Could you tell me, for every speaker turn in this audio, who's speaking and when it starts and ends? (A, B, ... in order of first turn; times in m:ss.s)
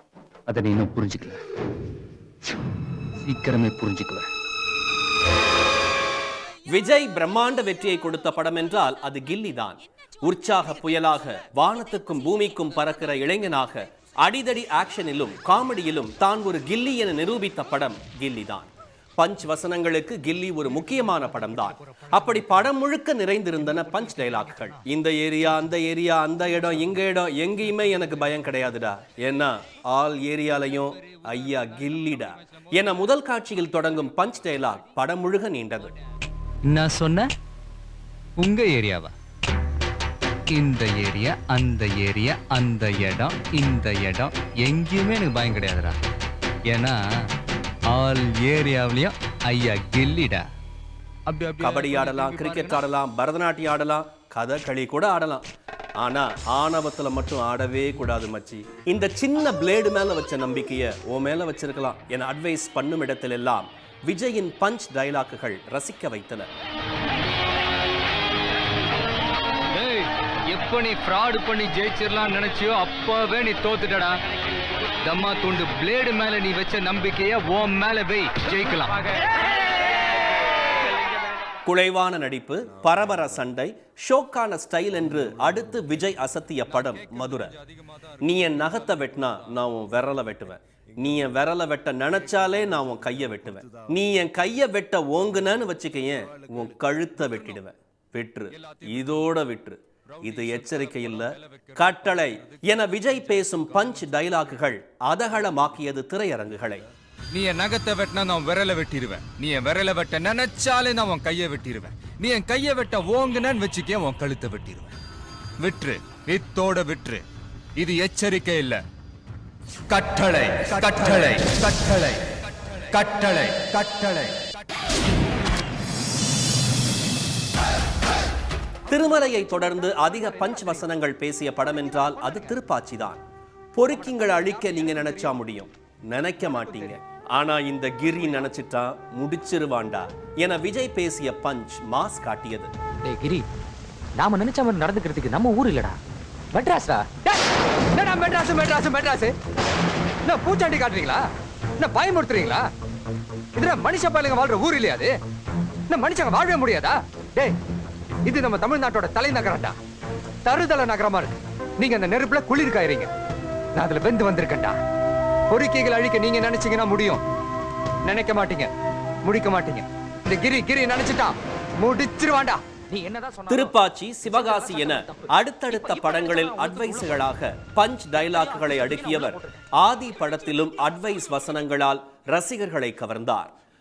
0:00.5-0:01.4 A
0:03.2-0:04.3 A
0:06.7-0:35.9 B
0:36.6-0:37.3 C
0:38.4-0:39.1 C
0:40.5-0:46.0 C
0:46.7-0:47.0 C
0:47.9-0:50.4 C
0:51.3-0:52.8 D
0:51.6-0:55.4 B
0:56.0-1:06.5 B
1:09.8-1:10.0 D
1:10.6-1:14.1 D
1:13.1-1:13.9 C
1:15.1-1:18.4 D
1:15.1-1:18.9 C
1:21.7-1:27.6 B
1:26.9-1:27.5 D
1:28.2-1:46.8 B
1:40.2-1:42.2 D
1:47.3-1:54.9 D
1:55.6-1:57.2 D
1:57.8-1:58.8 D
1:59.9-2:02.2 D
2:00.7-2:01.4 C
2:02.9-2:04.3 D
2:08.9-2:13.2 B
2:13.8-2:22.7 B
2:23.1-2:23.4 E
2:24.2-2:26.0 E
2:26.5-2:27.4 E
2:28.0-2:29.3 E
2:30.3-2:31.3 E
2:31.8-2:32.7 E
2:33.6-2:35.1 E
2:35.9-2:37.6 E
2:38.3-2:39.8 E
2:40.4-2:43.1 E
2:43.8-2:44.8 E
2:45.5-2:47.2 E
2:48.1-2:48.7 E
2:49.2-2:57.2 E
2:53.5-3:03.5 B
2:58.2-2:59.6 E